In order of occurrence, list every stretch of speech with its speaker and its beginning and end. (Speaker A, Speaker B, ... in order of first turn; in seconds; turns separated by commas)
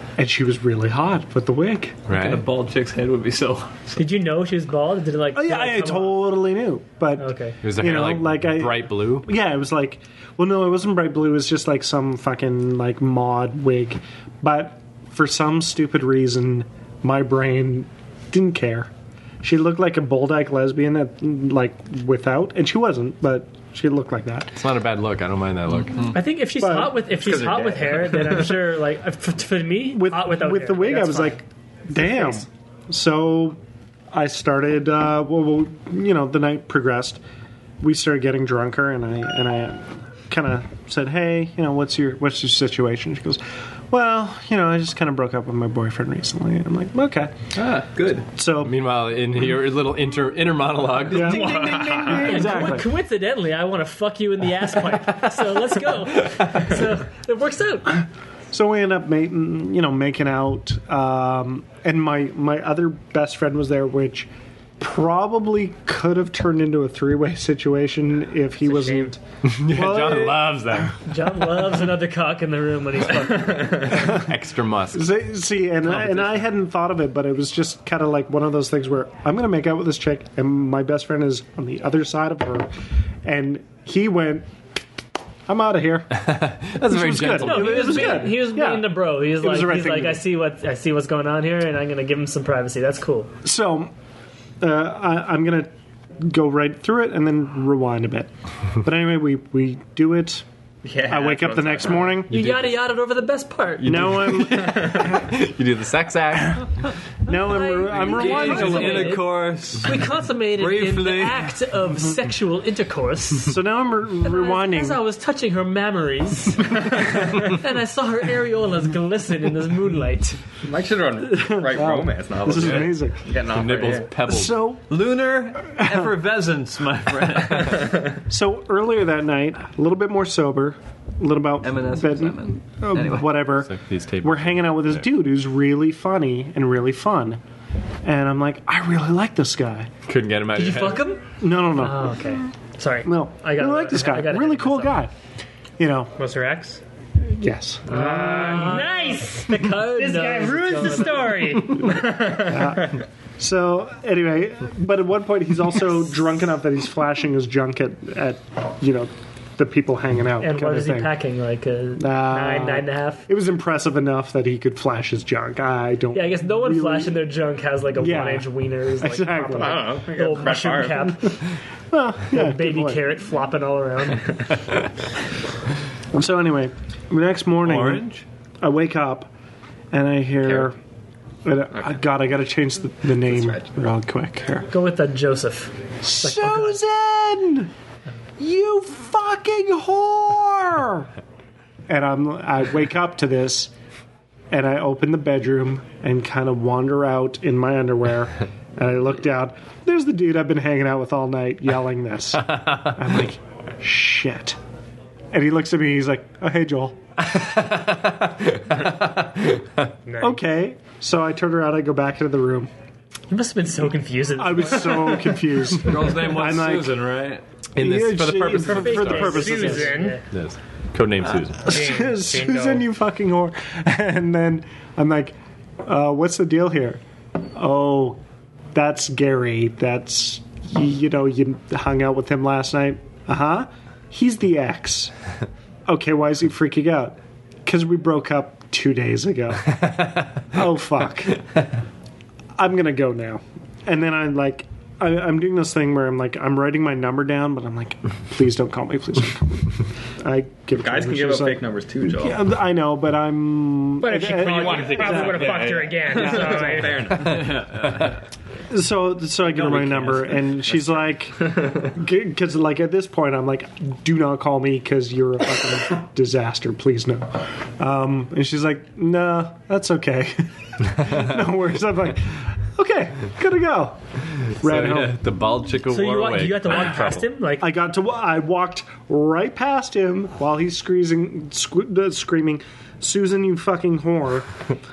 Speaker A: 0.2-2.1, Speaker B: 2.1-2.4, Speaker C: 2.1-4.0, Speaker D: 4.0-6.3, Speaker A: 5.3-18.9, Speaker D: 7.2-7.6, Speaker B: 7.6-9.3, Speaker A: 19.4-24.6, Speaker B: 24.6-26.2, Speaker D: 26.1-31.4, Speaker A: 26.5-27.1, Speaker E: 27.1-28.6, Speaker A: 29.9-33.6, Speaker D: 32.0-32.4, Speaker A: 34.1-37.2, Speaker A: 37.8-47.3, Speaker C: 47.6-48.2, Speaker A: 48.3-48.8, Speaker B: 48.6-52.0, Speaker A: 51.1-52.9, Speaker D: 51.3-58.0, Speaker E: 51.4-52.4, Speaker A: 58.5-64.3, Speaker A: 64.8-70.9, Speaker F: 68.6-69.1, Speaker B: 69.5-71.0, Speaker D: 71.1-73.9, Speaker B: 73.9-75.1, Speaker A: 74.9-82.7, Speaker A: 83.2-84.5, Speaker A: 85.5-90.3, Speaker B: 86.1-88.3, Speaker D: 87.4-93.3, Speaker A: 93.4-93.9, Speaker A: 94.6-95.7, Speaker A: 96.2-98.3, Speaker A: 98.8-100.5, Speaker E: 100.8-102.2, Speaker A: 101.1-102.3, Speaker B: 102.3-102.8, Speaker D: 102.3-104.1, Speaker B: 103.8-106.6, Speaker A: 103.8-105.1, Speaker A: 107.2-109.2, Speaker D: 107.3-113.6, Speaker C: 108.1-111.5, Speaker A: 113.4-115.0, Speaker D: 114.2-120.4, Speaker E: 120.6-124.1, Speaker A: 121.2-123.4, Speaker B: 123.5-124.7, Speaker A: 124.2-124.8, Speaker C: 124.9-128.0, Speaker A: 125.8-126.1, Speaker A: 128.3-137.4, Speaker C: 131.6-133.5, Speaker B: 133.6-135.1, Speaker A: 138.0-139.9, Speaker B: 140.1-141.1, Speaker D: 140.6-141.2, Speaker A: 141.4-142.3, Speaker D: 141.8-145.0, Speaker A: 143.1-145.1, Speaker A: 145.8-146.1, Speaker F: 146.2-146.8, Speaker A: 147.2-148.8, Speaker F: 147.9-151.9, Speaker D: 147.9-151.5, Speaker A: 150.3-150.9, Speaker E: 151.8-153.0, Speaker A: 152.2-161.2, Speaker D: 160.4-163.3, Speaker A: 162.0-167.3, Speaker D: 166.1-171.4, Speaker A: 167.9-170.0, Speaker E: 169.5-171.3, Speaker A: 171.9-173.1, Speaker D: 172.3-174.3, Speaker A: 176.1-178.1, Speaker C: 177.6-178.2, Speaker A: 178.6-179.3, Speaker A: 179.9-180.8, Speaker A: 181.4-184.7, Speaker E: 183.3-183.6, Speaker D: 184.7-186.8, Speaker A: 186.0-187.7, Speaker A: 188.4-191.1, Speaker A: 191.9-193.7, Speaker A: 194.5-204.6, Speaker A: 205.3-207.0, Speaker B: 207.2-209.9, Speaker F: 210.1-210.4, Speaker A: 210.2-212.7, Speaker D: 213.3-215.4, Speaker A: 214.4-217.0, Speaker C: 215.8-217.4, Speaker B: 217.8-219.7, Speaker A: 217.8-219.9, Speaker D: 218.6-220.2, Speaker F: 218.9-220.2, Speaker B: 220.3-221.8, Speaker A: 221.6-227.0, Speaker F: 221.6-222.9, Speaker A: 227.5-228.2, Speaker A: 228.7-235.1, Speaker A: 235.9-239.9, Speaker B: 239.8-240.2, Speaker A: 240.5-241.4, Speaker A: 242.6-255.7, Speaker E: 250.8-252.4, Speaker F: 254.0-257.2, Speaker E: 254.3-257.6, Speaker C: 257.2-258.1, Speaker B: 257.4-258.0, Speaker A: 258.7-274.0, Speaker C: 259.4-260.4, Speaker A: 274.6-275.2, Speaker B: 274.6-277.3, Speaker D: 275.9-277.7, Speaker A: 277.6-284.5